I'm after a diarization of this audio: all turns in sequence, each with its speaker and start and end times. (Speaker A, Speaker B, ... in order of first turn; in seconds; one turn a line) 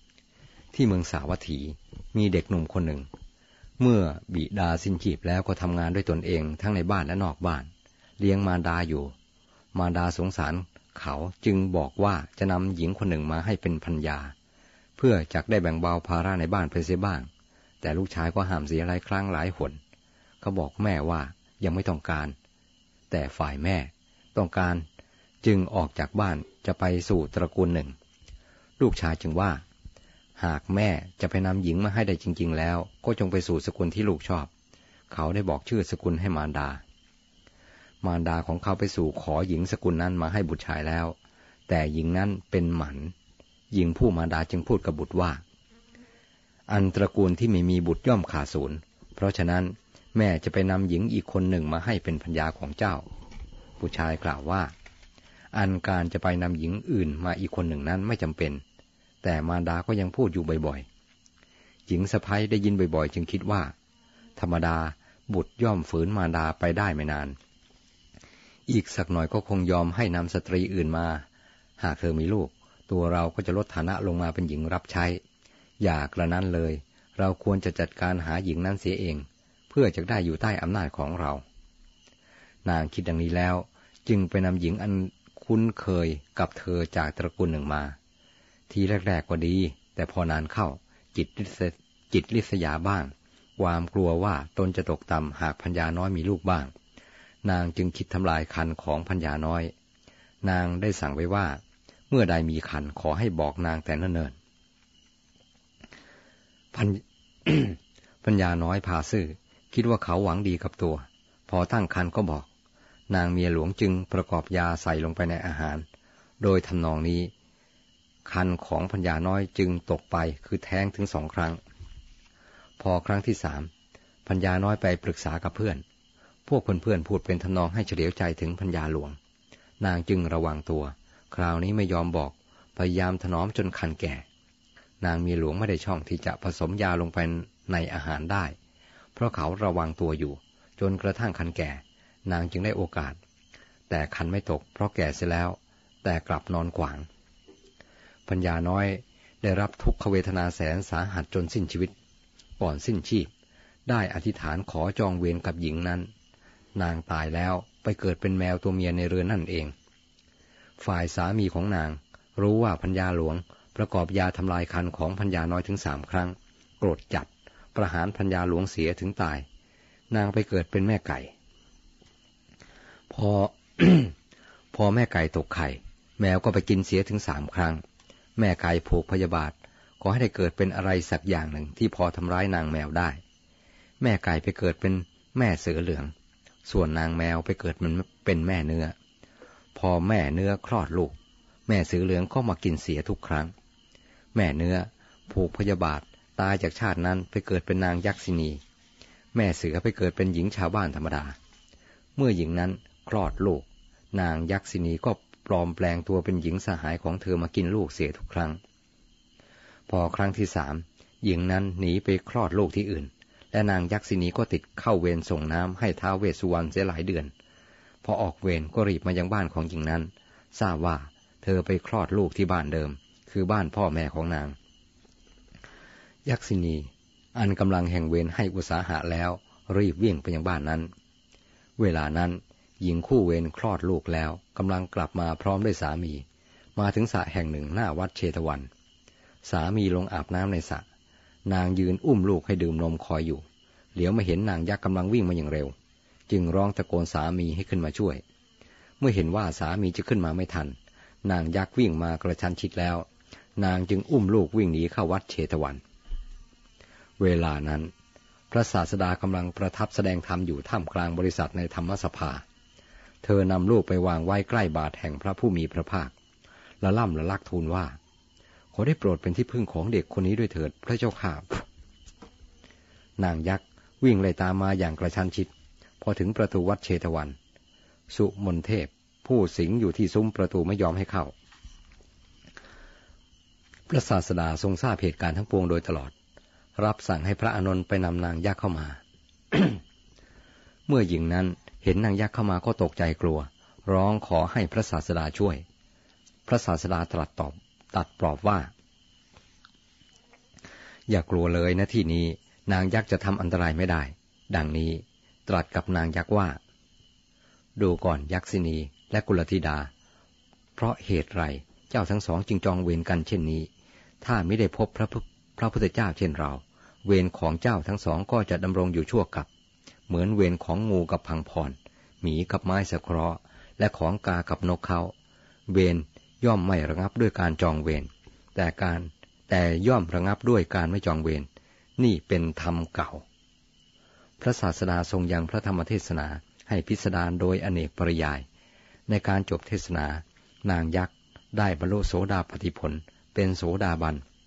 Speaker A: 0.7-3.1
Speaker A: 3.8-9.1
Speaker A: 9.7-14.3
Speaker A: 15.0-17.3
Speaker A: 17.8-19.8
Speaker A: 20.4-22.3
Speaker A: 23.1-24.9
Speaker A: 25.4-27.9
Speaker A: 28.8-29.6
Speaker A: 30.4-34.5
Speaker A: 35.1-36.8
Speaker A: 38.0-41.1
Speaker A: 41.7-43.1
Speaker A: 43.7-45.4
Speaker A: 46.7-53.0
Speaker A: 53.8-54.7
Speaker A: 55.5-58.6
Speaker A: 59.2-60.9
Speaker A: 61.9-63.7
Speaker A: 64.4-67.3
Speaker A: 68.7-71.2
Speaker A: 71.8-75.2
Speaker A: 75.8-81.4
Speaker A: 82.6-88.0
Speaker A: 88.7-96.7
Speaker A: 97.4-99.7
Speaker A: 100.4-104.3
Speaker A: 106.7-112.5
Speaker A: 113.1-115.8
Speaker A: 116.4-117.3
Speaker A: 118.2-121.6
Speaker A: 122.8-123.7
Speaker A: 124.2-125.8
Speaker A: 126.5-129.2
Speaker A: 129.8-134.2
Speaker A: 135.0-138.5
Speaker A: 139.1-143.2
Speaker A: 143.9-147.1
Speaker A: 148.3-151.9
Speaker A: 152.6-153.3
Speaker A: 153.9-156.1
Speaker A: 156.8-159.7
Speaker A: 160.8-169.4
Speaker A: 170.1-171.3
Speaker A: 173.1-174.1
Speaker A: 174.7-177.8
Speaker A: 178.3-183.2
Speaker A: 184.0-186.1
Speaker A: 186.7-188.9
Speaker A: 189.7-191.2
Speaker A: 191.7-193.5
Speaker A: 194.3-198.6
Speaker A: 199.3-201.3
Speaker A: 202.2-208.6
Speaker A: 209.9-217.3
Speaker A: 218.0-224.6
Speaker A: 226.2-230.9
Speaker A: 231.8-236.2
Speaker A: 236.8-238.7
Speaker A: 239.4-240.8
Speaker A: 241.4-243.4
Speaker A: 243.9-245.7
Speaker A: 246.3-248.2
Speaker A: 249.0-255.8
Speaker A: 257.2-257.9
Speaker A: 258.5-262.4
Speaker A: 263.2-266.1
Speaker A: 266.8-268.0
Speaker A: 268.7-271.6
Speaker A: 273.2-277.4
Speaker A: 278.1-281.3
Speaker A: 283.9-286.1
Speaker A: 286.8-289.0
Speaker A: 289.5-289.8
Speaker A: 290.9-295.6
Speaker A: 296.5-298.7
Speaker A: 301.1-306.6
Speaker A: 307.8-309.9
Speaker A: 310.8-313.7
Speaker A: 314.2-319.5
Speaker A: 320.1-325.1
Speaker A: 325.7-331.5
Speaker A: 332.0-333.2
Speaker A: 334.4-338.4
Speaker A: 339.1-344.2